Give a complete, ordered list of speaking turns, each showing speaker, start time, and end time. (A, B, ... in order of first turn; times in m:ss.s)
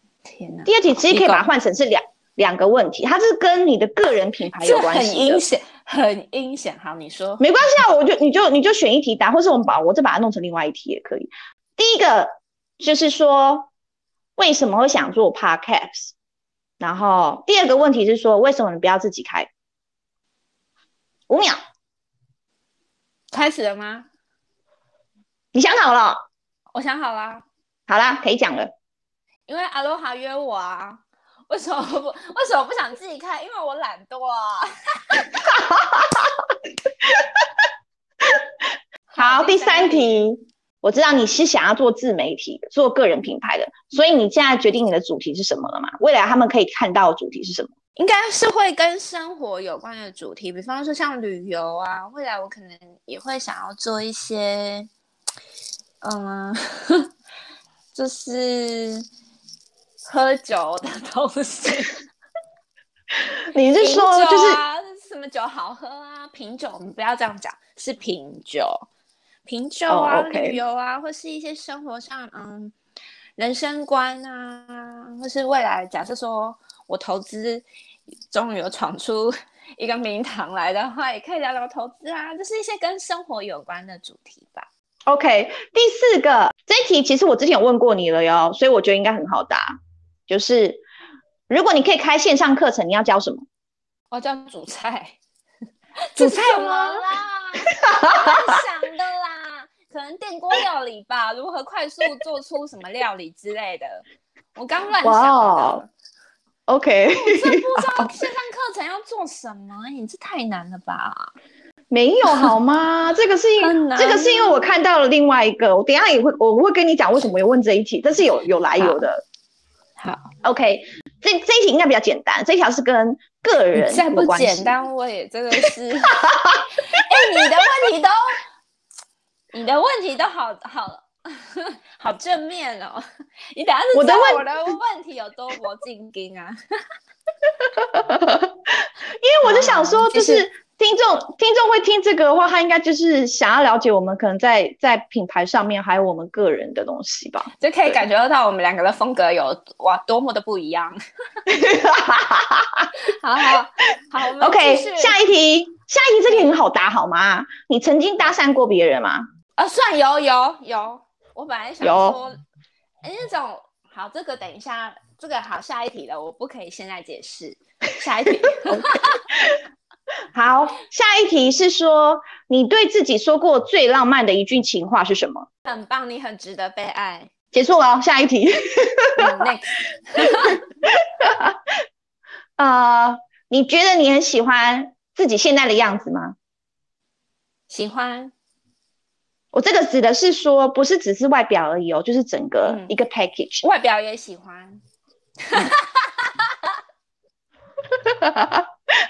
0:00.3-0:01.5 A
0:00.7-0:05.4 B
0:04.6-0:07.4 A
0:07.4-0:13.7 B
0:14.4-0:16.1 B
0:16.8-0:19.5 B
0:21.3-0:21.6 B
0:23.3-0:24.1 A
0:25.5-0:26.2 B
0:26.7-0:27.4 A
0:27.9-0:28.7 B
0:29.5-0:35.3 A
0:35.3-0:36.5 B
0:37.0-0:37.5 B
0:38.2-0:38.5 B
0:39.1-0:40.3 A
0:39.2-0:47.7 B
0:48.0-0:54.9 A
0:56.0-0:57.1 A
0:57.9-0:59.1 A
1:00.1-1:02.0 A
1:03.5-1:04.6 B
1:03.8-1:08.8 A
1:09.5-1:12.8 A
1:09.9-1:10.6 B
1:13.4-1:17.6 A
1:18.3-1:24.7 A
1:25.1-1:30.8 B
1:31.5-1:33.4 B
1:34.1-1:35.2 A
1:36.1-1:44.0 A
1:36.2-1:37.0 B
1:37.8-1:38.5 B
1:44.6-1:45.9 A
1:45.0-1:45.8 B
1:46.7-1:48.1 B
1:47.1-1:51.3 A
1:51.9-1:59.2 B
1:53.6-1:54.8 A
1:58.8-1:59.0 A
2:00.0-2:00.3 A
2:00.4-2:04.7 B
2:03.8-2:08.4 A
2:06.1-2:07.4 B
2:09.5-2:16.6 A
2:13.9-2:14.4 B
2:17.6-2:28.0 B
2:19.4-2:20.5 A
2:27.5-2:31.0 A
2:31.5-2:32.9 B
2:33.0-2:35.2 A
2:34.4-2:39.2 B
2:36.3-2:36.6 A
2:39.6-2:42.4 A
2:41.8-2:42.2 B
2:43.0-2:49.2 A
2:48.5-2:49.6 B
2:50.3-2:55.5 B
2:55.6-2:57.3 A
2:57.5-2:59.5 B
2:59.2-3:00.6 A
3:00.2-3:01.6 B
3:02.6-3:06.4 B
3:07.7-3:08.3 A
3:09.5-3:13.6 B
3:12.6-3:12.9 A
3:13.6-3:14.8 A
3:15.4-3:16.7 A
3:18.0-3:18.7 B